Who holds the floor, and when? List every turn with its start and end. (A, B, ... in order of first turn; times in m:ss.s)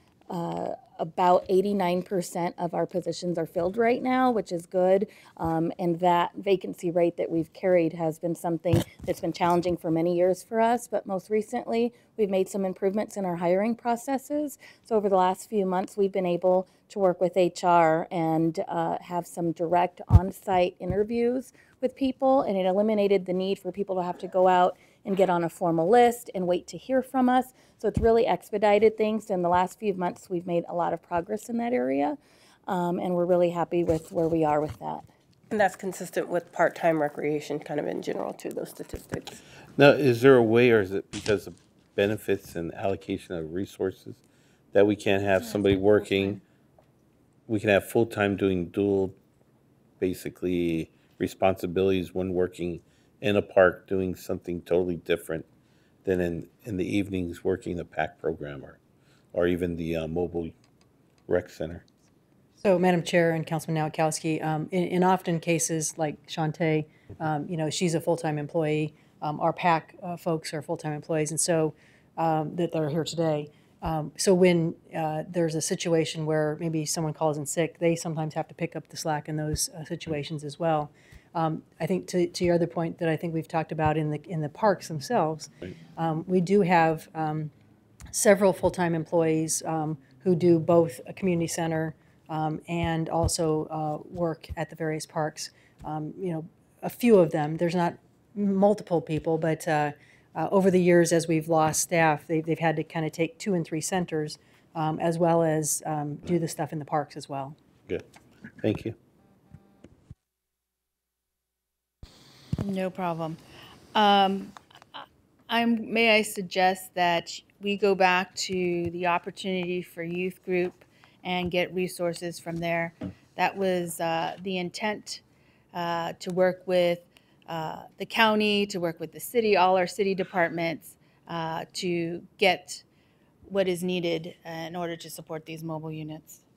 0:00.3-0:35.1 A
0:35.5-0:39.4 B
0:39.8-0:44.2 C
0:44.7-0:46.4 C
0:47.5-0:49.2 C
0:50.0-0:55.4 C
0:56.0-0:58.8 C
0:59.3-1:00.5 C
1:01.3-1:01.8 C
1:02.6-1:27.5 D
1:28.1-1:47.6 D
1:48.6-1:48.9 C
1:52.6-1:53.4 E
1:53.9-2:05.2 E
2:05.7-2:12.8 E
2:13.5-2:16.4 E